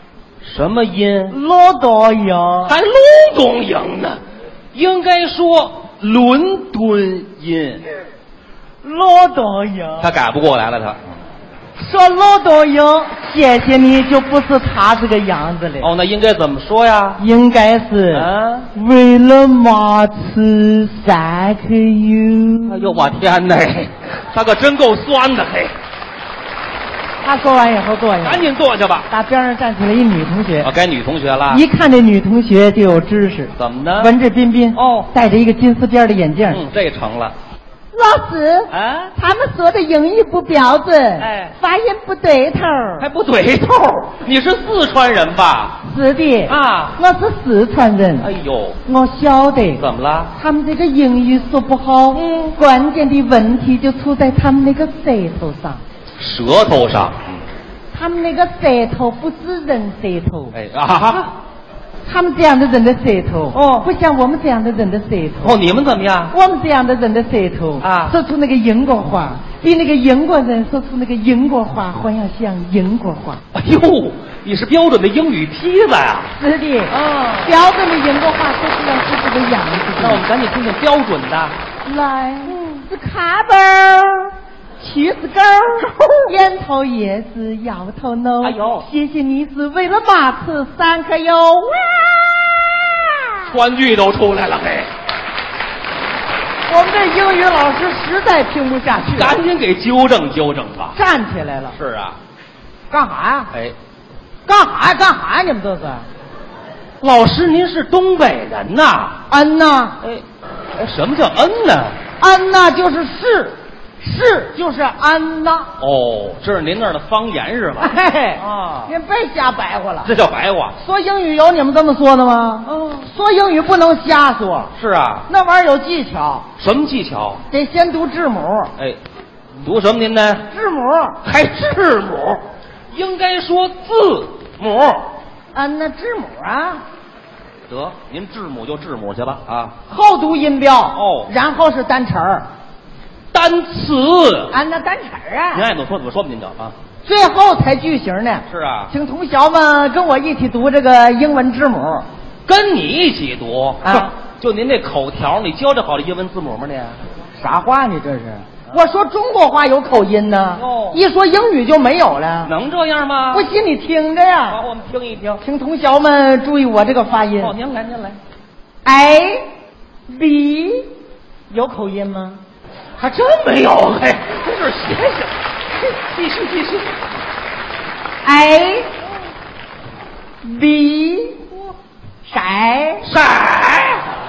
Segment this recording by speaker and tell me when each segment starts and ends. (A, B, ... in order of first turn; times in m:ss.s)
0:00.4-0:01.4 A
0:01.3-0:02.8 B
0:02.7-0:04.2 A
0:04.7-0:07.9 A
0:08.8-0:10.1 B
0:10.0-0:11.0 A
0:11.8-0:15.9 B
0:15.8-0:17.2 A
0:17.2-0:23.0 B
0:18.1-0:18.7 A
0:22.7-0:25.7 A
0:27.2-0:28.4 B
0:28.2-0:29.1 A
0:29.1-0:30.7 B
0:30.6-0:31.6 A
0:31.5-0:36.6 B
0:33.6-0:34.1 A
0:34.8-0:35.1 A
0:36.5-0:37.3 A
0:37.9-0:43.1 B
0:38.7-0:39.1 A
0:41.2-0:41.6 A
0:43.0-0:45.8 A
0:45.8-0:48.3 B
0:46.5-0:47.0 A
0:48.2-0:48.8 A
0:48.8-0:55.8 B
0:49.8-0:50.3 A
0:52.2-0:52.5 A
0:56.2-0:57.4 A
0:57.9-1:00.6 B
1:00.5-1:01.3 A
1:02.1-1:05.6 B
1:03.5-1:03.9 A
1:05.4-1:06.3 A
1:06.3-1:13.4 B
1:07.8-1:08.2 A
1:13.5-1:16.3 A
1:16.3-1:20.2 B
1:16.9-1:17.6 A
1:20.0-1:21.6 A
1:21.8-1:32.2 B
1:22.5-1:22.8 A
1:28.4-1:28.9 A
1:33.5-1:34.9 A
1:36.7-1:39.4 B
1:39.1-1:41.0 A
1:40.9-1:41.8 B
1:41.8-1:42.2 A
1:42.9-1:43.5 B
1:44.5-1:46.1 B
1:47.0-1:49.2 A
1:49.3-1:50.0 B
1:50.0-1:52.0 A
1:52.2-1:55.7 B
1:55.8-1:58.9 A
1:57.8-2:00.1 B
2:00.0-2:00.8 A
2:00.8-2:04.7 B
2:02.7-2:03.1 A
2:04.8-2:05.3 A
2:05.3-2:06.5 B
2:06.6-2:07.4 A
2:07.5-2:08.7 B
2:09.6-2:10.5 A
2:10.5-2:11.2 B
2:11.2-2:12.4 A
2:12.9-2:15.1 A
2:15.5-2:16.8 B
2:17.7-2:19.8 A
2:19.9-2:22.5 B
2:20.9-2:21.3 A
2:23.3-2:24.6 A
2:24.5-2:25.7 B
2:25.5-2:26.8 A
2:27.0-2:32.1 B
2:28.5-2:28.9 A
2:32.5-2:37.0 A
2:33.8-2:34.1 B
2:37.4-2:42.5 B
2:40.6-2:41.0 A
2:42.4-2:43.5 A
2:43.3-2:44.6 B
2:44.5-2:45.4 A
2:45.4-2:47.5 B
2:47.4-2:48.2 A
2:48.8-2:49.5 B
2:50.1-2:50.9 B
2:51.5-2:52.4 B
2:53.0-2:57.0 A
2:58.2-2:58.9 B
3:00.4-3:01.5 B
3:02.2-3:03.1 B
3:03.0-3:04.1 A